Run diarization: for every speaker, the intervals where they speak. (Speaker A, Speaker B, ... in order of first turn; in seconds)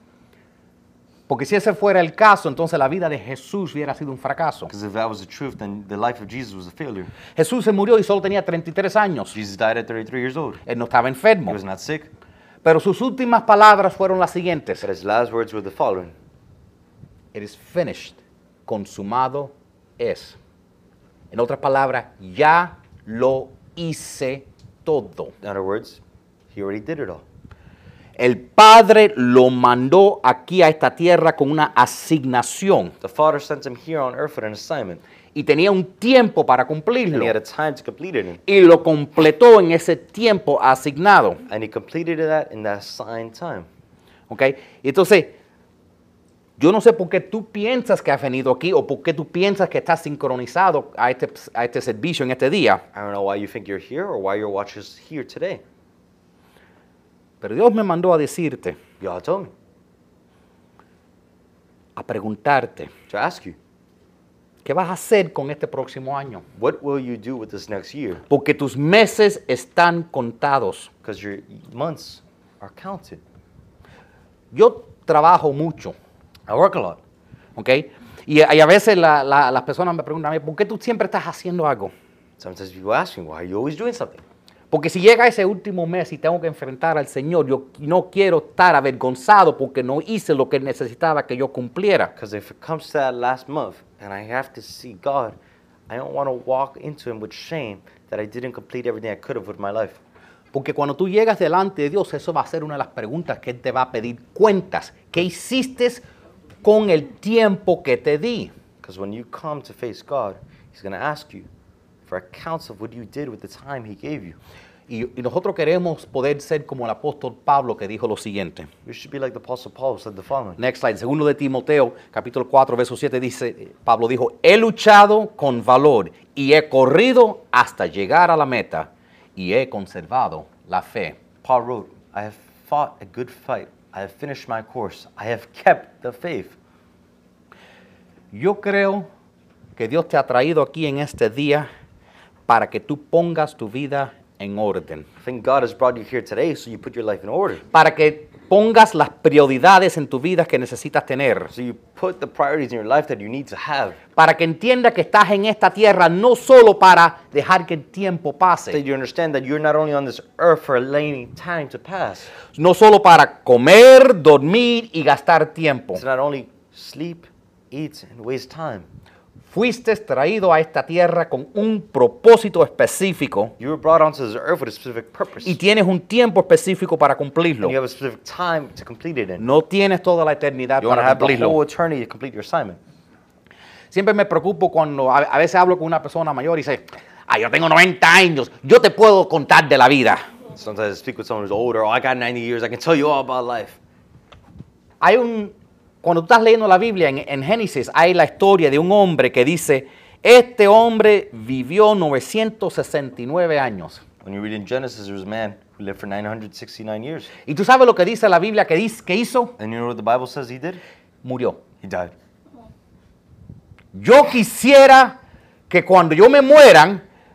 Speaker A: 1.3-4.7, 7.3-9.4, 10.7-11.6, 12.6-14.9, 17.3-20.4, 21.3-25.3, 28.2-32.9, 35.3-37.3, 38.5-41.4, 44.3-45.3, 46.6-52.8, 57.4-58.8, 62.0-62.9, 64.7-66.4, 68.3-70.9, 74.5-76.0, 77.6-81.9, 84.7-92.1, 100.5-106.0, 106.6-108.5, 114.9-118.7, 120.6-131.2, 138.3-139.1, 139.8-141.7, 142.5-145.1, 147.7-151.5, 154.2-158.8, 162.5-166.0, 169.4-173.5, 175.4-177.8, 179.4-181.6, 183.9-190.2, 195.0-204.0, 207.4-209.5, 211.2-211.6, 213.9-215.2, 215.7-217.0
Speaker B: 4.7-7.1, 9.3-10.6, 11.5-12.1, 14.8-16.1, 25.4-26.0, 26.5-27.2, 33.0-35.0, 37.1-38.4, 41.5-43.7, 52.9-55.6, 59.0-59.5, 63.1-63.6, 66.6-68.2, 71.0-73.2, 76.5-77.0, 82.4-84.2, 92.2-95.4, 95.9-100.0, 108.8-111.5, 112.1-114.4, 118.8-120.6, 131.4-136.6, 145.2-147.6, 151.5-154.0, 158.7-162.3, 165.9-168.9, 173.6-175.6, 177.6-179.4, 180.8-182.8, 190.5-193.8, 204.2-207.3, 209.6-210.8, 211.8-212.1